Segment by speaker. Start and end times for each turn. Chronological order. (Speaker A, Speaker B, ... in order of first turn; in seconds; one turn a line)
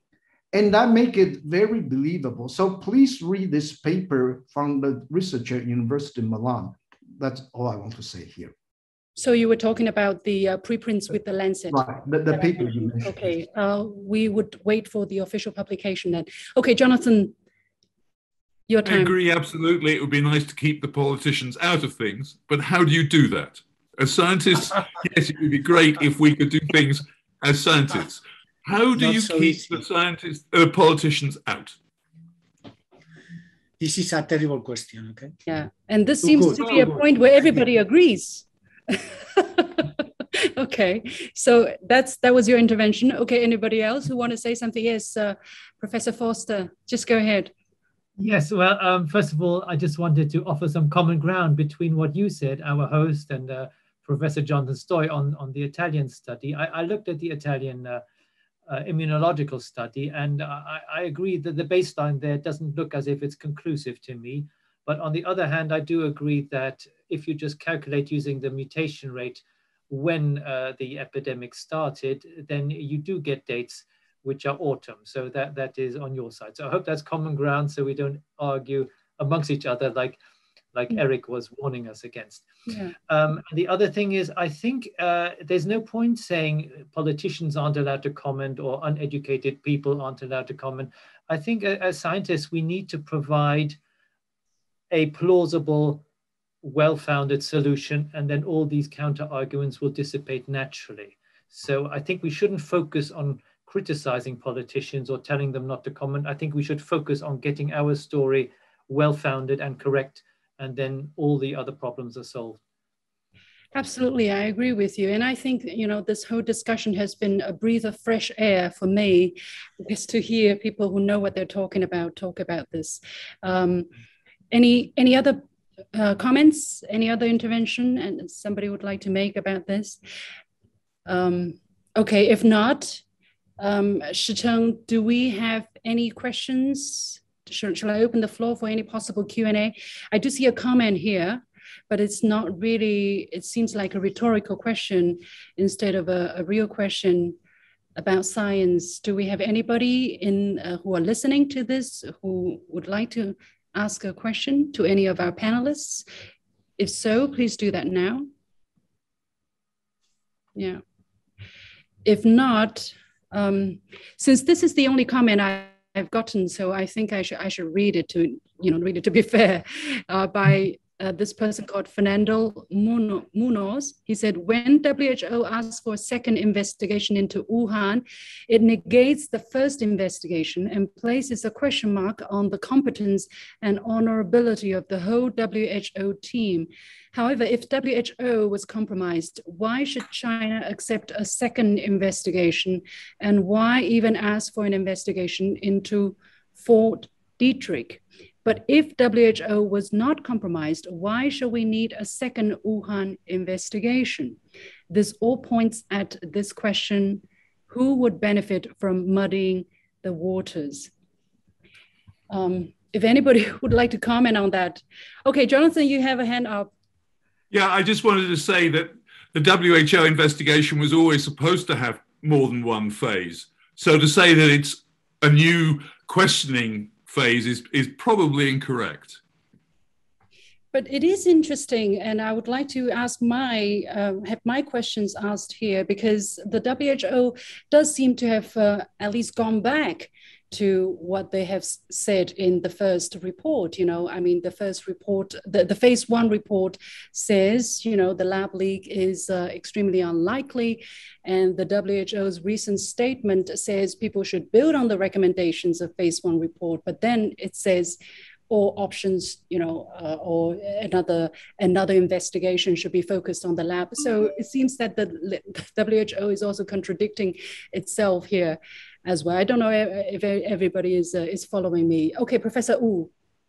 Speaker A: 0.5-8.5
Speaker B: 9.2-17.3
Speaker A: 11.7-13.3
Speaker B: 18.7-19.1
Speaker C: 18.9-31.8
Speaker D: 28.9-29.8
Speaker D: 33.8-35.3
Speaker B: 35.5-39.9
Speaker D: 36.2-37.6
Speaker B: 40.6-47.5
Speaker E: 48.2-58.0
Speaker E: 58.7-80.2
Speaker E: 80.7-82.5
Speaker B: 82.7-82.9
Speaker E: 83.1-93.8
Speaker E: 94.9-96.0
Speaker E: 96.6-112.6
Speaker B: 113.7-123.9
Speaker B: 124.5-125.4
Speaker B: 125.9-130.0
Speaker B: 131.1-133.0
Speaker B: 133.6-147.4
Speaker B: 148.0-156.1
Speaker B: 156.8-158.3
Speaker B: 160.6-160.8
Speaker B: 162.1-204.4
Speaker B: 204.9-210.9
Speaker B: 212.3-216.7
Speaker C: 217.5-229.2
Speaker B: 230.7-258.0
Speaker B: 258.5-273.1